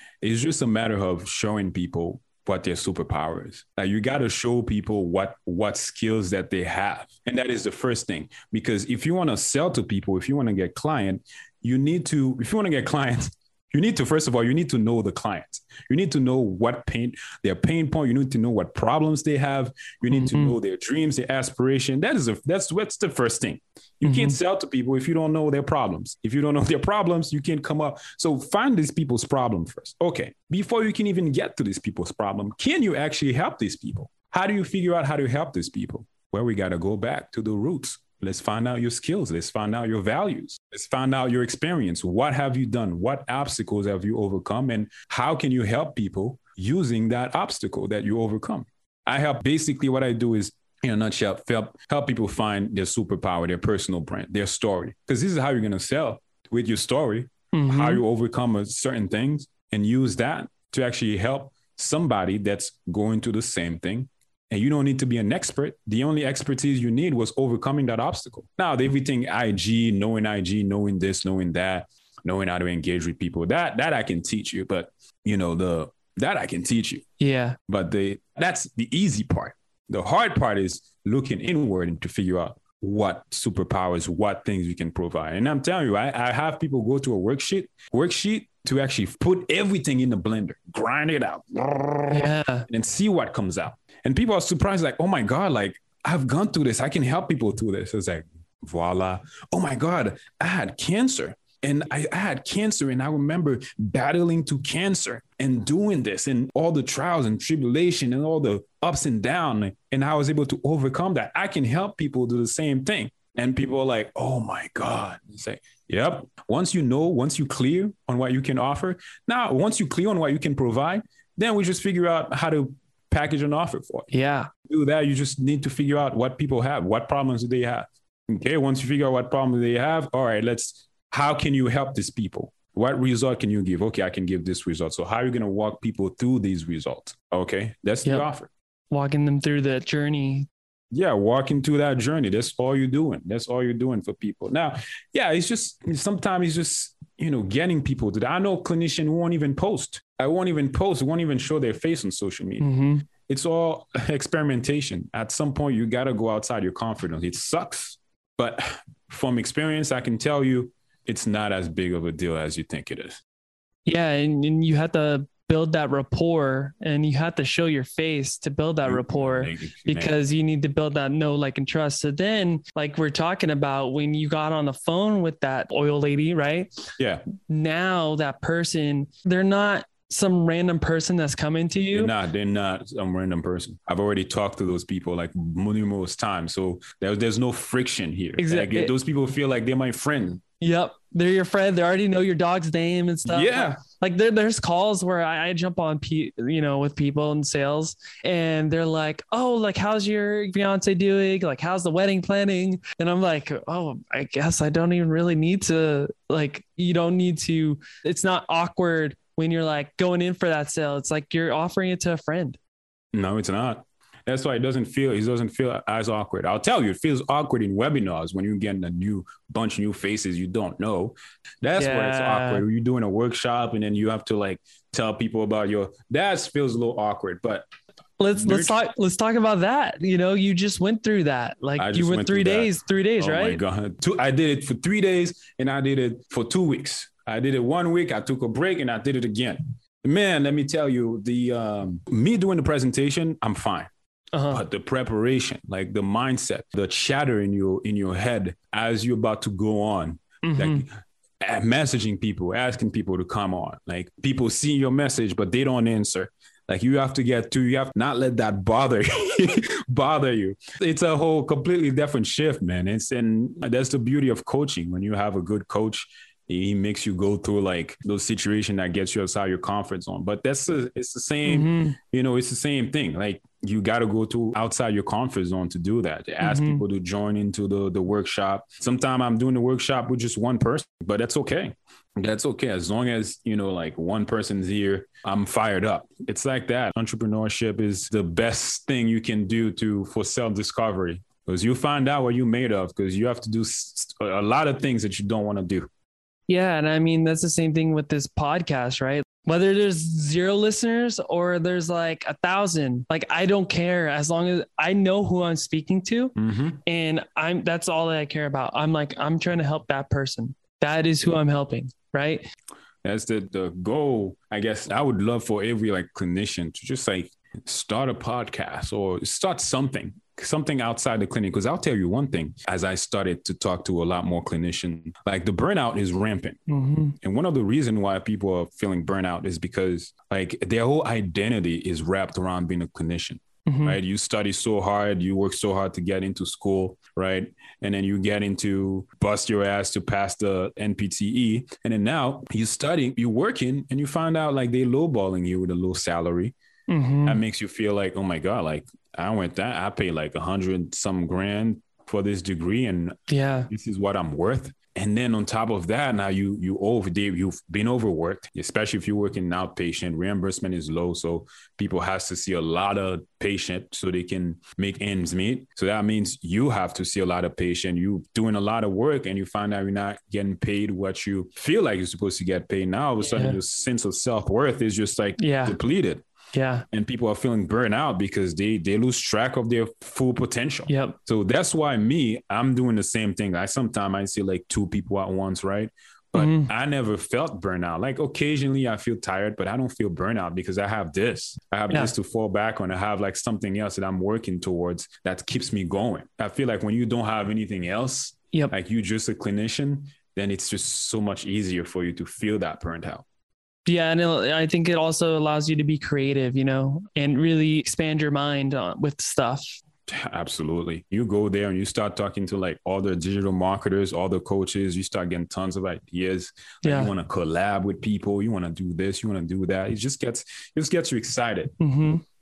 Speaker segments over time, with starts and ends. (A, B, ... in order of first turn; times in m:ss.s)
0:00.2-1:17.0 A
0:20.1-0:20.5 B
0:24.0-0:24.4 B
0:57.5-0:58.0 B
1:17.2-1:17.6 B
1:17.7-2:04.1 A
1:32.1-1:32.6 B
2:04.1-2:04.5 B
2:04.6-2:18.5 A
2:18.9-2:20.5 B
2:20.9-2:43.2 A
2:32.6-2:33.0 B
2:43.8-2:56.7 B
2:48.8-2:50.2 A
2:57.0-2:57.2 A
2:57.4-3:02.1 B
3:01.9-3:10.4 A
3:08.4-3:08.9 B
3:10.6-3:32.6 B
3:13.2-3:13.8 A
3:33.1-3:47.6 A
3:41.8-3:42.6 B
3:48.2-3:53.6 B
3:48.4-3:48.8 A
3:51.8-4:03.9 A
4:04.3-4:04.6 B
4:04.5-4:10.9 A
4:10.4-4:10.8 B
4:11.4-4:55.9 A
4:31.4-4:32.0 B
4:36.4-4:36.8 B
4:56.5-5:06.3 B
5:06.4-5:06.8 A
5:06.8-5:12.5 B
5:13.0-5:26.6 A
5:26.7-5:27.1 B
5:27.2-5:46.5 A
5:33.7-5:34.0 B
5:46.9-5:47.4 B
5:47.2-6:16.2 A
5:53.3-5:53.7 B
6:13.3-6:13.6 B
6:15.4-6:15.8 B
6:16.5-6:16.8 B
6:16.9-6:43.2 A
6:20.9-6:21.2 B
6:26.3-6:26.7 B
6:43.9-6:49.8 B
6:50.1-7:01.7 A
6:56.8-6:57.1 B
7:01.8-7:02.2 B